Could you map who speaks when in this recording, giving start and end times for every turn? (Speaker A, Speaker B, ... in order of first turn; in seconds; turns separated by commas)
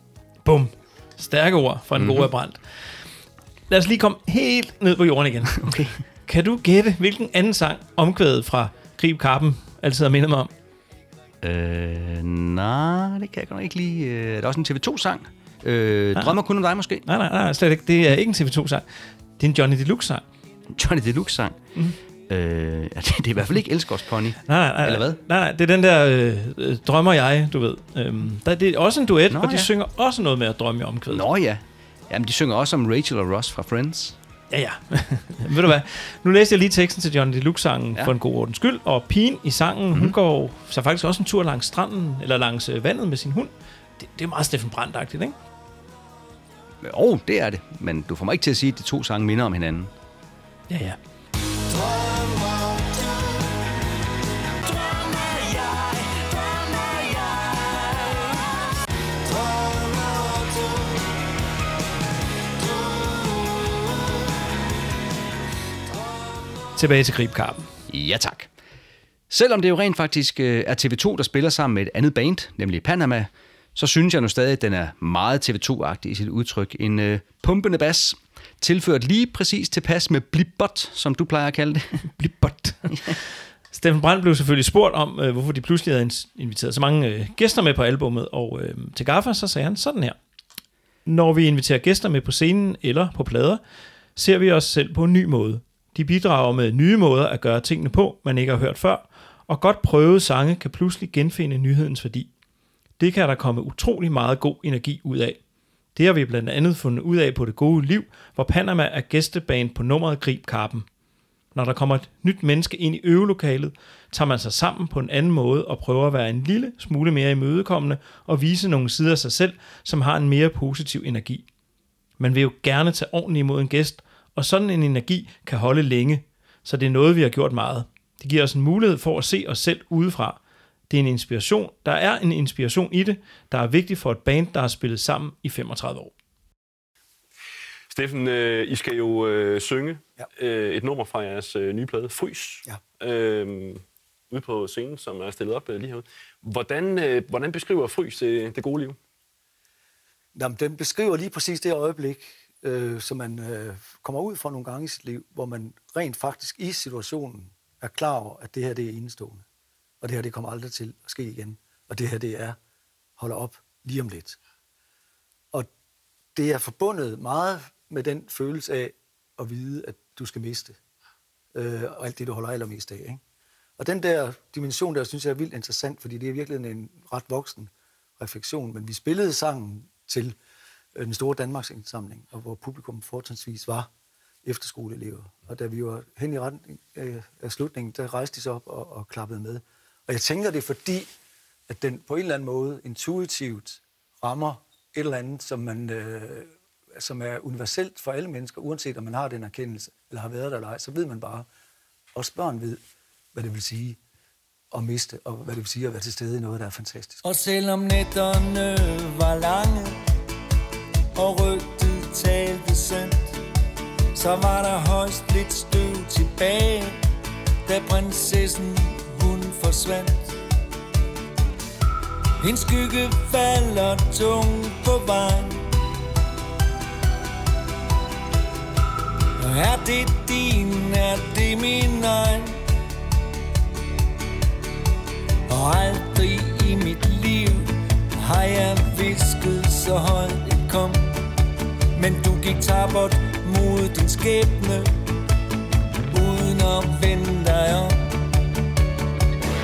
Speaker A: 0.4-2.6, Speaker B: 1.9-2.3, Speaker A: 3.7-10.5, Speaker B: 5.6-6.0, Speaker B: 11.4-17.0, Speaker A: 17.0-18.8, Speaker A: 19.4-20.2, Speaker B: 20.7-21.6, Speaker B: 22.3-25.2, Speaker A: 24.5-31.2, Speaker B: 29.3-29.7, Speaker B: 31.1-34.1, Speaker A: 34.5-45.4, Speaker B: 46.8-49.9, Speaker A: 50.7-51.0, Speaker C: 51.7-53.0, Speaker C: 54.7-58.1, Speaker C: 59.3-60.7, Speaker A: 66.8-67.7, Speaker B: 67.9-68.5, Speaker B: 69.3-82.0, Speaker A: 82.2-90.2, Speaker A: 91.0-93.6, Speaker A: 94.2-102.3, Speaker A: 103.0-105.4, Speaker A: 105.9-110.8, Speaker A: 111.5-121.4, Speaker A: 122.2-130.4, Speaker A: 130.9-136.1, Speaker D: 137.9-149.0, Speaker E: 150.3-159.4, Speaker E: 160.0-162.6, Speaker E: 163.2-164.4, Speaker E: 166.3-170.8, Speaker E: 171.5-173.2, Speaker E: 173.8-180.3, Speaker E: 180.9-183.9, Speaker E: 184.4-191.1, Speaker E: 191.7-201.5, Speaker E: 202.1-202.8, Speaker E: 203.3-204.0, Speaker E: 204.7-207.2, Speaker C: 207.2-210.0, Speaker C: 211.1-213.3, Speaker C: 214.1-217.0, Speaker C: 217.7-220.3, Speaker C: 222.4-225.7, Speaker C: 229.4-232.6, Speaker C: 235.5-241.2, Speaker C: 241.9-244.9, Speaker C: 246.1-248.1